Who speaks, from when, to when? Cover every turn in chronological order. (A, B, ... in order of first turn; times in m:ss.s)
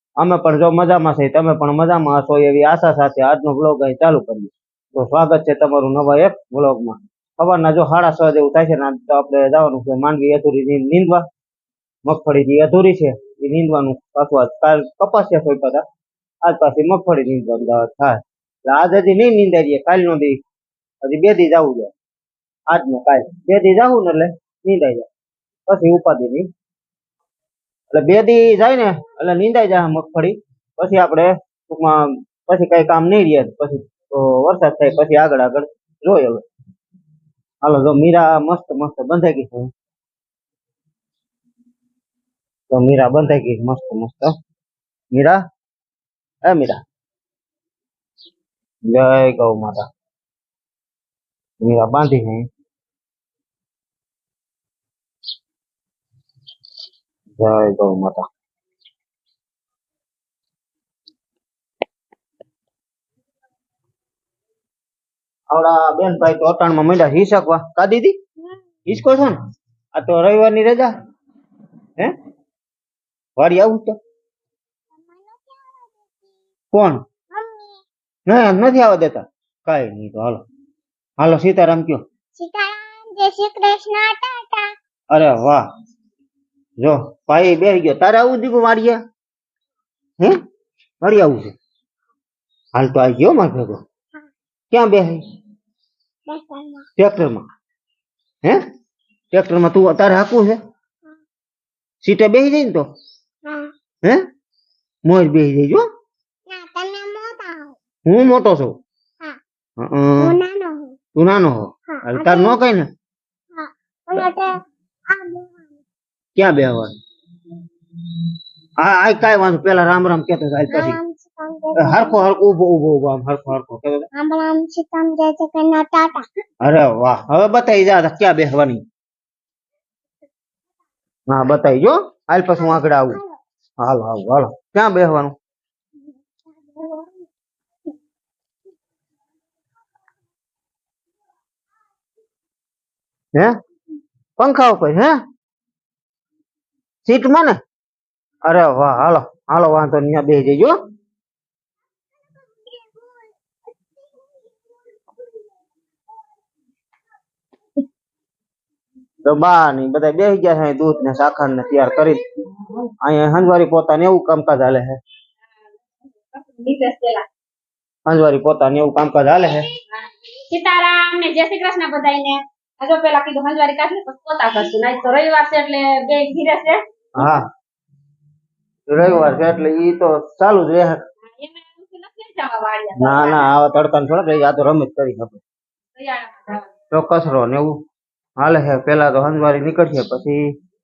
0:00.2-0:11.2 A
0:12.0-0:15.8 A
0:16.4-0:20.4 A
0:21.0-0:21.9 A
0:22.7-0:25.1 A
0:25.7-0:26.5 A
0:27.9-0:36.4 A
0:37.6-0:39.7 A
0:42.7-0:44.3 A
0:45.1-0:45.4 A
0:46.4-0:46.8 A
0:48.8-0:49.9 A
0:51.6-0:52.4 A
0:57.4-0:58.2 A
1:05.5-1:08.2 A
1:08.9-1:09.4 A
1:09.9-1:10.9 A
1:13.4-1:14.0 A
1:14.9-1:16.4 B
1:16.7-1:17.0 A
1:17.3-1:17.8 B
1:18.3-1:20.4 A
1:21.2-1:22.0 A
1:22.4-1:24.7 B
1:25.1-1:25.6 A
1:26.8-1:29.0 A
1:31.0-1:31.6 A
1:32.7-1:33.8 A
1:34.7-1:35.2 A
1:36.3-1:36.9 B
1:37.0-1:37.4 A
1:39.3-1:40.6 A
1:42.0-1:42.8 A
1:43.4-1:43.7 B
1:45.0-1:45.8 A
1:46.5-1:47.8 B
1:48.0-1:48.8 A
1:49.8-1:50.4 A
1:50.2-1:51.0 B
1:51.1-1:52.9 A
1:51.9-1:52.6 B
1:53.5-1:54.6 B
1:55.1-1:55.8 B
1:56.3-1:56.9 A
1:58.8-2:01.0 A
2:00.7-2:02.2 B
2:01.8-2:04.1 A
2:04.1-2:06.2 B
2:06.6-2:08.8 A
2:11.3-2:13.2 A
2:12.6-2:13.4 B
2:13.8-2:15.3 A
2:16.2-2:17.3 B
2:24.4-2:25.2 A
2:27.0-2:27.6 A
2:28.4-2:30.7 A
2:32.2-2:33.4 B
2:34.1-2:35.5 B
2:39.2-2:42.2 A
2:43.0-2:45.0 A
2:46.2-2:47.2 C
2:48.0-2:49.7 A
2:50.5-2:56.8 C
2:57.1-2:57.5 A
2:58.9-3:01.0 A
3:01.3-3:03.5 C
3:03.0-3:05.4 A
3:06.0-3:06.6 C
3:06.9-3:07.8 A
3:08.4-3:10.4 A